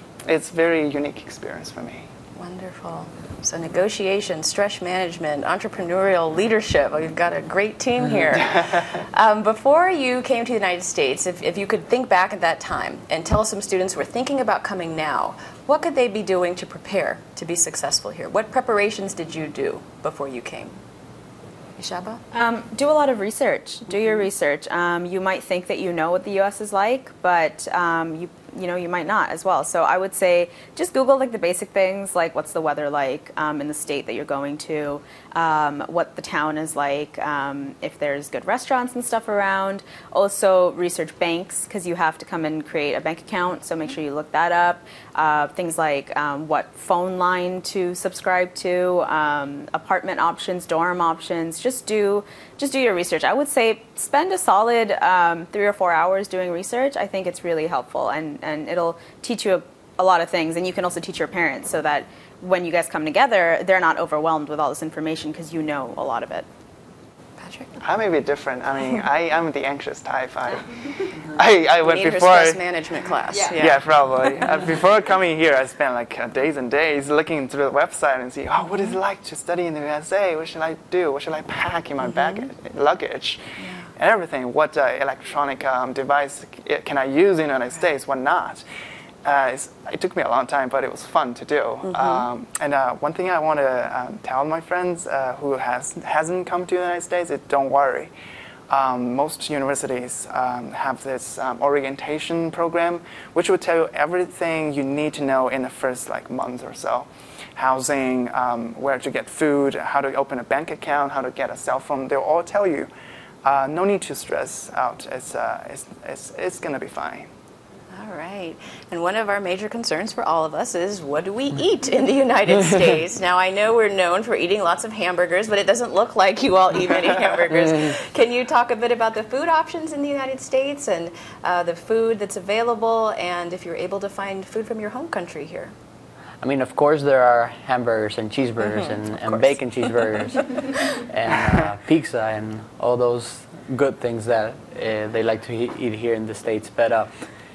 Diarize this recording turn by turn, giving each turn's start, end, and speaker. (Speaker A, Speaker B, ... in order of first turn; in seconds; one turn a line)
Speaker A: 0.2-2.1
Speaker B: 2.4-20.8
Speaker A: 8.4-8.7
Speaker B: 21.8-22.2
Speaker C: 22.3-66.5
Speaker B: 67.4-67.7
Speaker A: 67.8-72.6
Speaker B: 71.8-74.5
Speaker A: 73.5-88.6
Speaker B: 83.6-83.9
Speaker A: 89.2-98.1
Speaker B: 92.0-92.2
Speaker A: 98.7-112.9
Speaker A: 113.4-117.3
Speaker B: 117.9-135.7
Speaker D: 136.4-147.1
Speaker B: 138.7-139.6